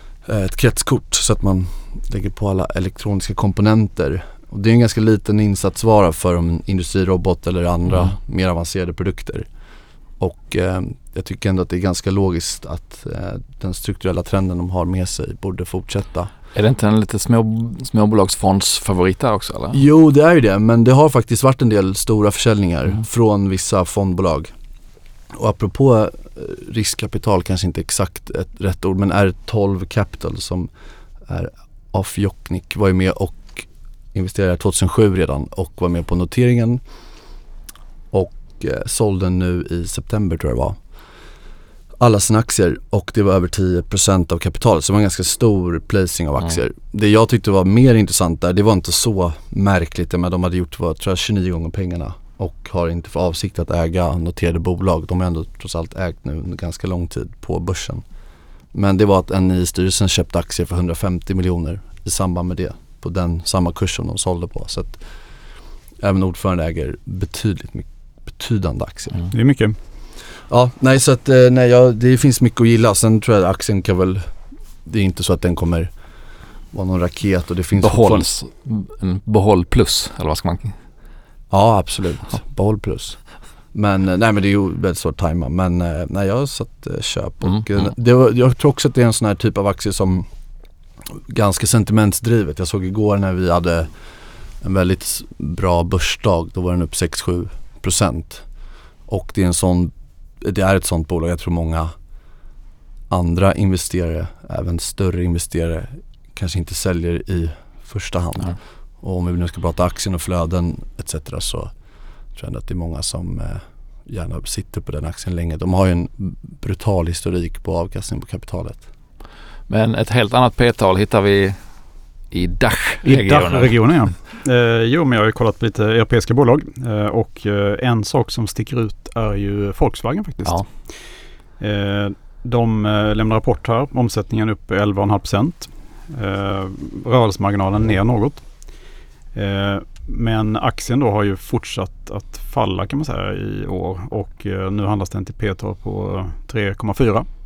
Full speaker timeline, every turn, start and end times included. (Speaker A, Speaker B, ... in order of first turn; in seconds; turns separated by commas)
Speaker A: 0.2-9.5, Speaker A: 10.2-16.3, Speaker B: 16.5-19.8, Speaker A: 19.7-24.5, Speaker A: 25.3-30.7, Speaker A: 31.2-36.8, Speaker A: 38.1-40.8, Speaker A: 42.0-58.0, Speaker A: 58.7-65.0, Speaker A: 66.0-69.2, Speaker C: 69.3-69.8, Speaker A: 70.5-75.9, Speaker A: 76.7-78.3, Speaker B: 77.8-80.8, Speaker A: 81.5-90.3, Speaker B: 87.4-87.9, Speaker A: 91.1-93.9, Speaker A: 94.6-98.5, Speaker A: 99.1-101.9, Speaker A: 103.1-111.7, Speaker A: 112.3-118.8, Speaker B: 119.7-121.6, Speaker B: 122.3-123.8, Speaker C: 123.0-131.1, Speaker C: 131.6-138.4, Speaker C: 139.3-147.2